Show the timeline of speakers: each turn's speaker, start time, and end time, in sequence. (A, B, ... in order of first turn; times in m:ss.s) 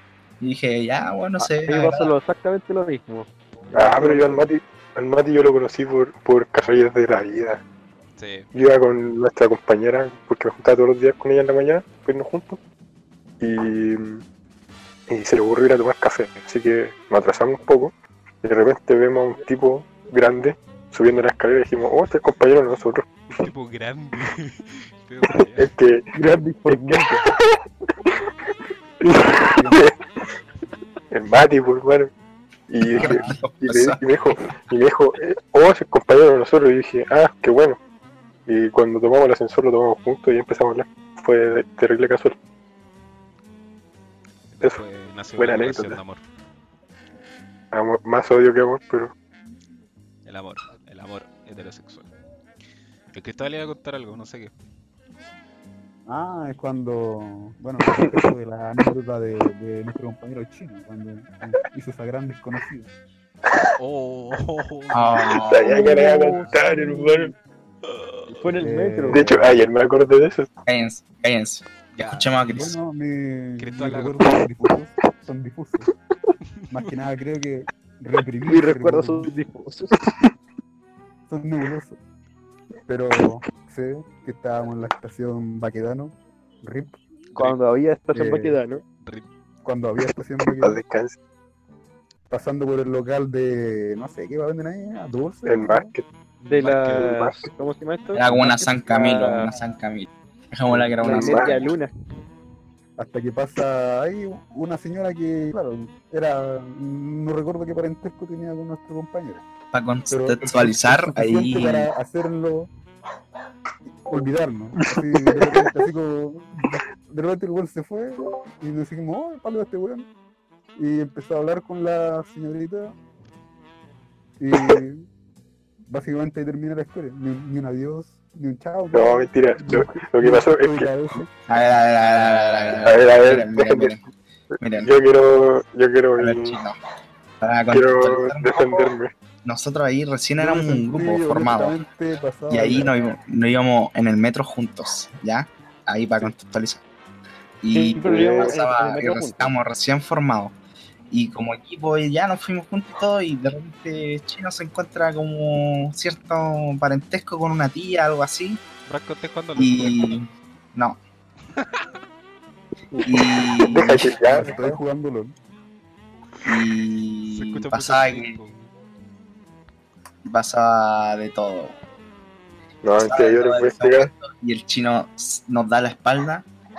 0:00.4-0:02.1 A
0:01.4-0:04.4 B
0:03.7-0:07.6 C
0:08.2-0:08.5 D
0:08.5-0:12.6 C
0:13.4-0:14.2 C
0:15.1-0:23.1 C
0:23.4-0:25.7 D
0:25.5-0:26.1 C
0:26.1-0:27.3 B
0:26.7-0:27.5 C
0:29.0-0:29.9 C
0:29.6-0:29.8 E
0:31.1-0:32.1 C
0:32.7-0:37.8 C
0:32.9-0:34.0 A
0:38.5-0:42.4 C
0:44.5-0:46.2 D
0:45.4-0:46.0 C
0:47.7-0:49.1 C
0:50.2-0:52.1 D
0:53.1-0:54.5 D
0:56.1-1:02.9 E
1:03.8-1:05.4 D
1:04.9-1:05.8 A
1:05.4-1:07.3 C
1:05.7-1:07.3 E
1:05.7-1:06.4 B
1:08.3-1:09.2 B
1:08.6-1:09.7 E
1:09.1-1:10.5 C
1:10.6-1:12.8 A
1:11.9-1:12.6 D
1:12.5-1:15.9 E
1:13.6-1:14.4 D
1:16.7-1:19.3 E
1:18.4-1:20.0 B
1:21.3-1:22.0 E
1:22.9-1:27.0 E
1:27.3-1:27.6 D
1:27.4-1:28.8 B
1:28.1-1:28.6 E
1:29.6-1:30.8 E
1:30.4-1:31.2 C
1:32.3-1:35.9 E
1:35.4-1:36.0 C
1:36.4-1:39.5 B
1:36.5-1:37.1 D
1:36.8-1:37.5 C
1:38.1-1:41.6 A
1:41.0-1:41.9 B
1:41.0-1:41.6 C
1:43.0-1:49.4 E
1:49.7-1:51.9 A
1:50.1-1:52.7 E
1:53.9-2:00.1 E
1:54.8-1:55.7 C
2:00.8-2:02.9 E
2:04.4-2:05.0 E
2:05.9-2:11.3 E
2:08.9-2:10.9 C
2:11.5-2:14.0 A
2:12.0-2:13.1 D
2:12.8-2:13.9 C
2:14.6-2:14.9 A
2:14.8-2:16.6 C
2:16.2-2:16.8 A
2:17.4-2:18.9 A
2:17.7-2:19.1 C
2:19.4-2:21.8 A
2:20.4-2:22.9 E
2:22.5-2:26.8 A
2:27.6-2:30.5 A
2:27.7-2:29.5 B
2:28.1-2:28.5 C
2:31.1-2:38.6 A
2:38.8-2:40.2 D
2:39.6-2:41.0 A
2:41.6-2:41.8 D
2:42.9-2:44.7 C
2:43.0-2:44.1 A
2:44.2-2:45.3 E
2:46.4-2:48.4 A
2:47.3-2:48.7 D
2:50.2-2:51.8 A
2:52.8-2:54.1 C
2:53.0-2:56.5 A